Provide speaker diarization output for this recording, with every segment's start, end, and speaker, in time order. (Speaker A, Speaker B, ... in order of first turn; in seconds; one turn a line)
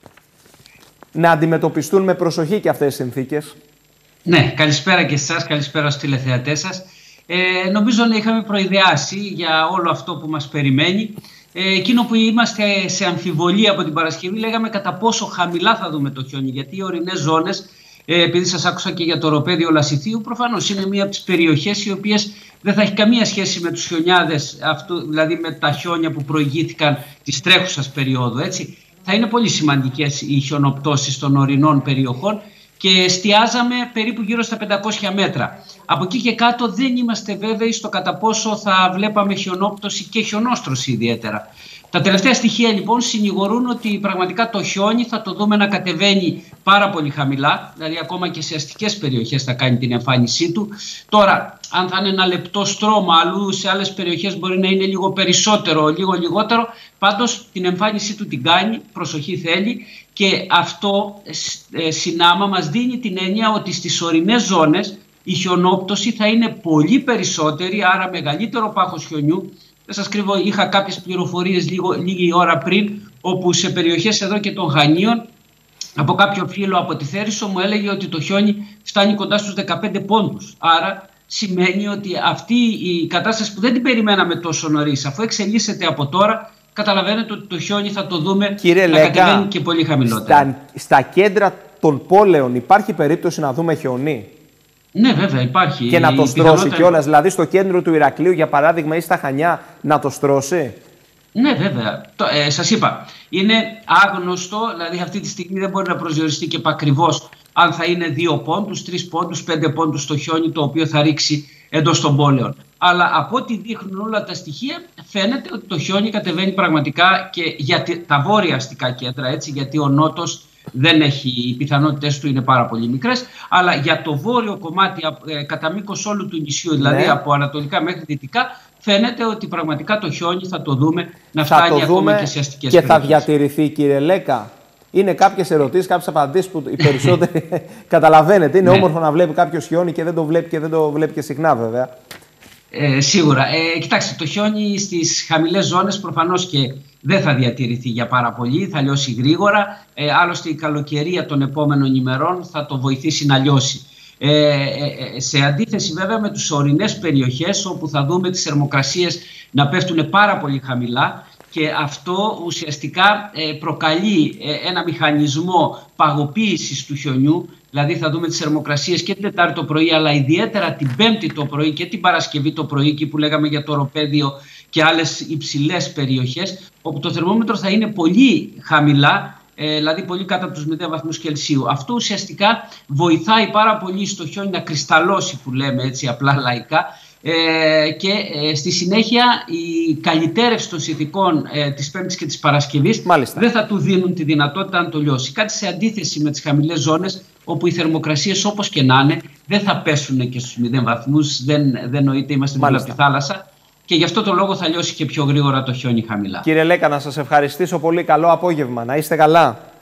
Speaker A: 1.1-3.5
Speaker B: 4.2-75.2
Speaker B: 76.0-90.5
Speaker A: 88.6-89.5
Speaker A: 90.1-94.3
Speaker B: 94.9-97.0
Speaker A: 95.9-100.8
Speaker B: 101.3-133.3
Speaker A: 126.8-127.2
Speaker A: 131.4-141.9
Speaker B: 136.8-137.1
Speaker B: 142.7-206.4
Speaker A: 193.0-193.4
Speaker A: 202.6-203.0
Speaker A: 206.4-209.6